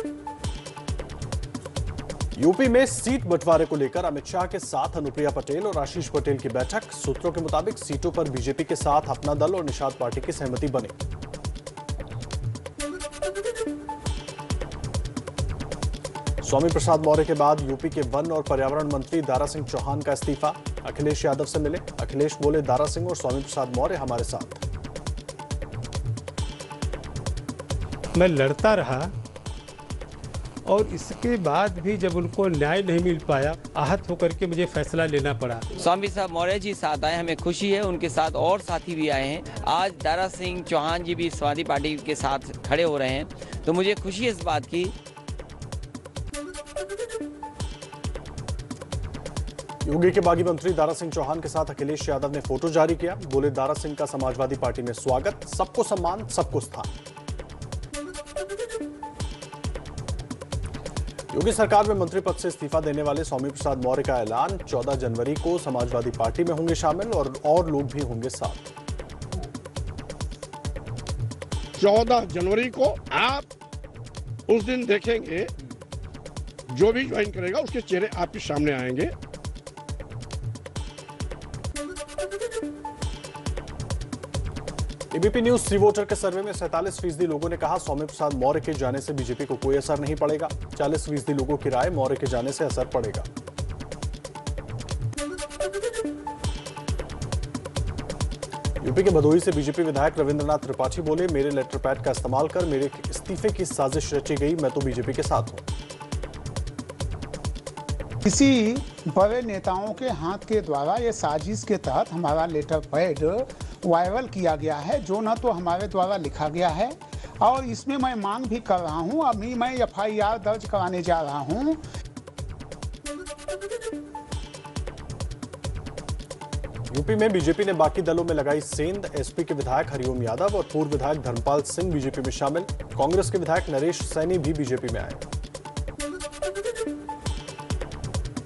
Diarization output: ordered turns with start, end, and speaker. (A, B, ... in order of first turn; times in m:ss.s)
0:02.4-0:11.0 A
0:16.4-0:24.6 A
0:28.2-0:29.1 B
0:30.7-0:35.6 B
0:35.8-0:44.9 C
0:49.8-0:56.9 A
1:01.3-1:08.7 A
1:11.8-1:13.5 D
1:14.5-1:15.5 D
1:16.7-1:19.1 D
1:25.1-1:33.3 A
1:38.8-1:45.6 A
1:48.2-2:01.8 E
2:06.9-2:15.2 A